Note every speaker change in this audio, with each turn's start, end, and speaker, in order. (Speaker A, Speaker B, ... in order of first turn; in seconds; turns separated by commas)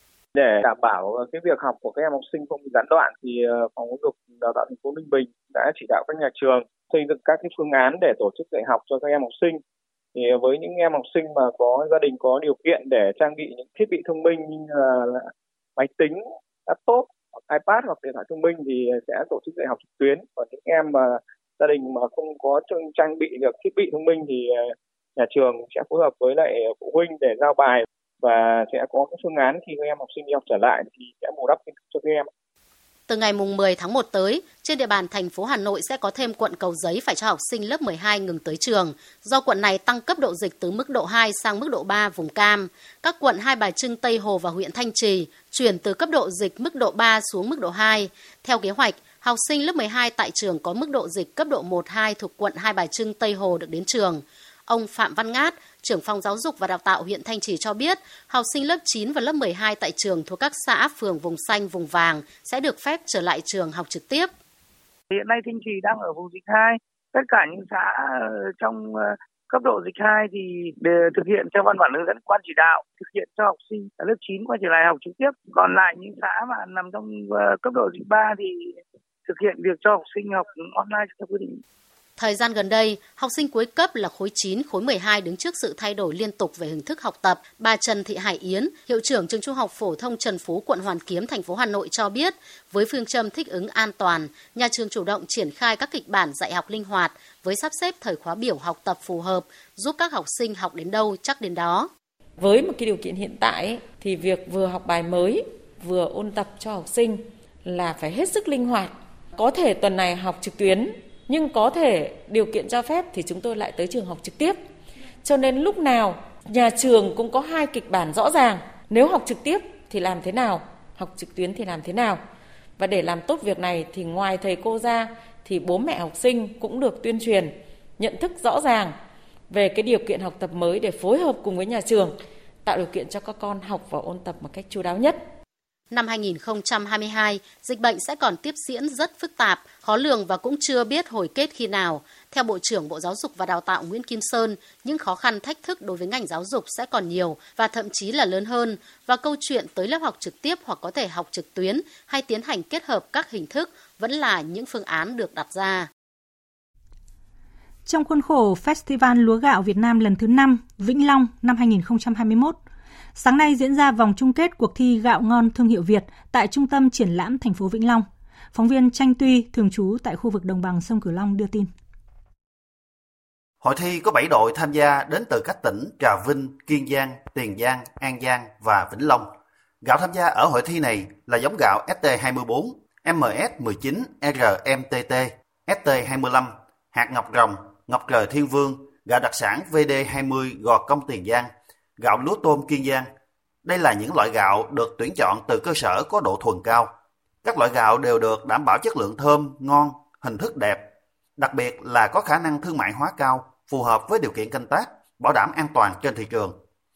Speaker A: 0.4-9.6, Speaker A: 10.2-32.3, Speaker B: 33.1-64.3, Speaker C: 65.1-81.6, Speaker B: 82.2-101.9, Speaker D: 102.4-114.6, Speaker D: 115.2-122.2, Speaker D: 122.8-129.0, Speaker D: 129.5-135.2, Speaker B: 135.9-155.9, Speaker E: 157.9-162.6, Speaker E: 163.2-171.7, Speaker F: 173.6-179.3, Speaker F: 179.8-193.1, Speaker F: 193.7-196.9, Speaker F: 197.4-200.9, Speaker F: 201.4-206.6